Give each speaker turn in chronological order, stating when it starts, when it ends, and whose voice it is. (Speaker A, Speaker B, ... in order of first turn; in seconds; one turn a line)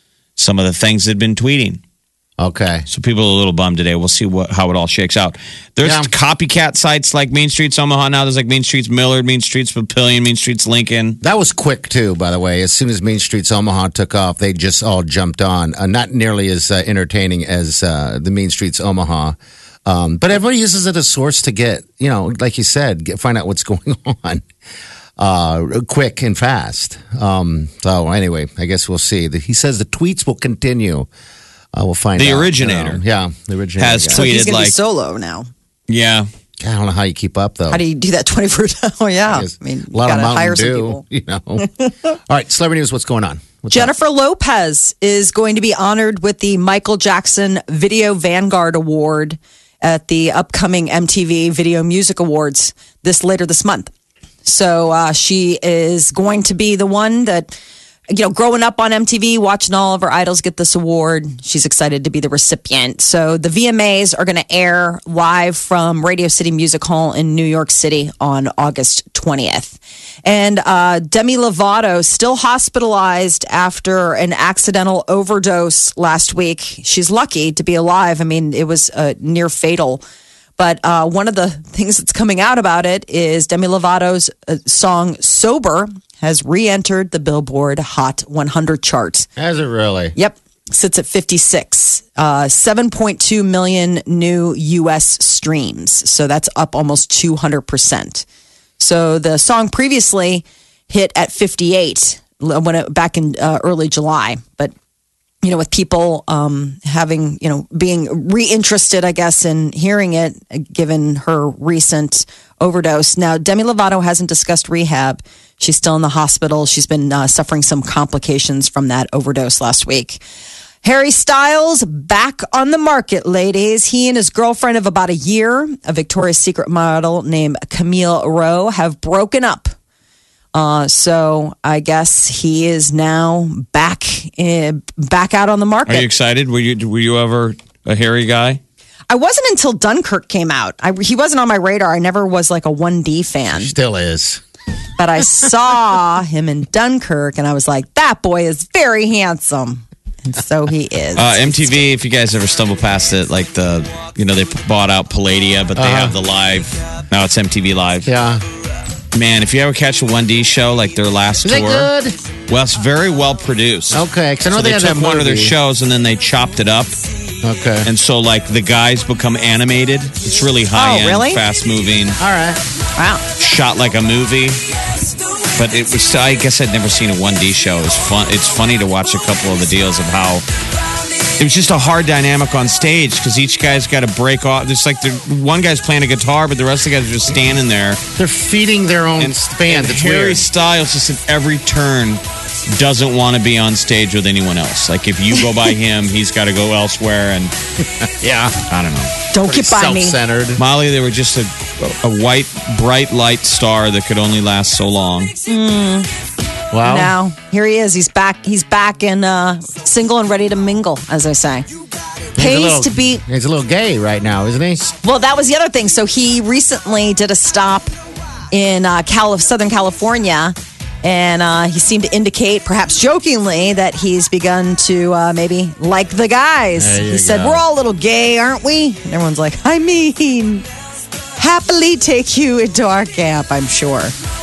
Speaker A: 0.4-1.8
Speaker B: 2.4-2.9
Speaker A: 2.9-11.2
Speaker B: 5.8-6.1
Speaker B: 11.2-19.3
Speaker B: 19.9-24.4
Speaker B: 25.2-31.1
Speaker B: 31.7-34.3
Speaker A: 32.1-33.0
Speaker A: 33.8-34.8
Speaker C: 34.1-35.5
Speaker A: 35.9-36.3
Speaker B: 36.6-37.8
Speaker C: 37.7-41.0
Speaker B: 39.3-43.9
Speaker C: 43.7-53.9
Speaker C: 54.4-57.5
Speaker C: 58.1-80.0
Speaker C: 80.6-89.3
Speaker B: 89.4-90.1
Speaker C: 90.1-98.2
Speaker C: 98.8-104.7
Speaker C: 105.4-120.2
Speaker C: 120.8-129.7
Speaker C: 130.5-136.1
Speaker A: 135.9-138.6
Speaker C: 139.1-143.7
Speaker B: 143.5-144.4
Speaker C: 145.0-151.8
Speaker A: 151.2-158.1
Speaker B: 155.8-156.2
Speaker B: 158.1-158.4
Speaker A: 159.1-161.9
Speaker B: 161.4-162.2
Speaker A: 162.5-166.9
Speaker B: 163.9-165.5
Speaker B: 167.4-167.9
Speaker A: 167.8-172.2
Speaker C: 170.7-171.4
Speaker B: 172.2-172.6
Speaker C: 173.0-173.2
Speaker A: 173.4-174.6
Speaker A: 175.6-180.4
Speaker A: 181.4-188.0
Speaker B: 188.2-190.4
Speaker A: 189.2-197.5
Speaker B: 198.0-198.6
Speaker A: 198.7-199.1
Speaker C: 199.3-200.2
Speaker B: 199.4-200.6
Speaker A: 200.6-205.3
Speaker C: 205.5-206.1
Speaker B: 206.7-207.1
Speaker C: 206.8-211.7
Speaker C: 212.3-213.2
Speaker B: 212.3-214.8
Speaker C: 214.8-217.9
Speaker C: 218.5-230.7
Speaker B: 226.8-227.6
Speaker C: 231.3-234.1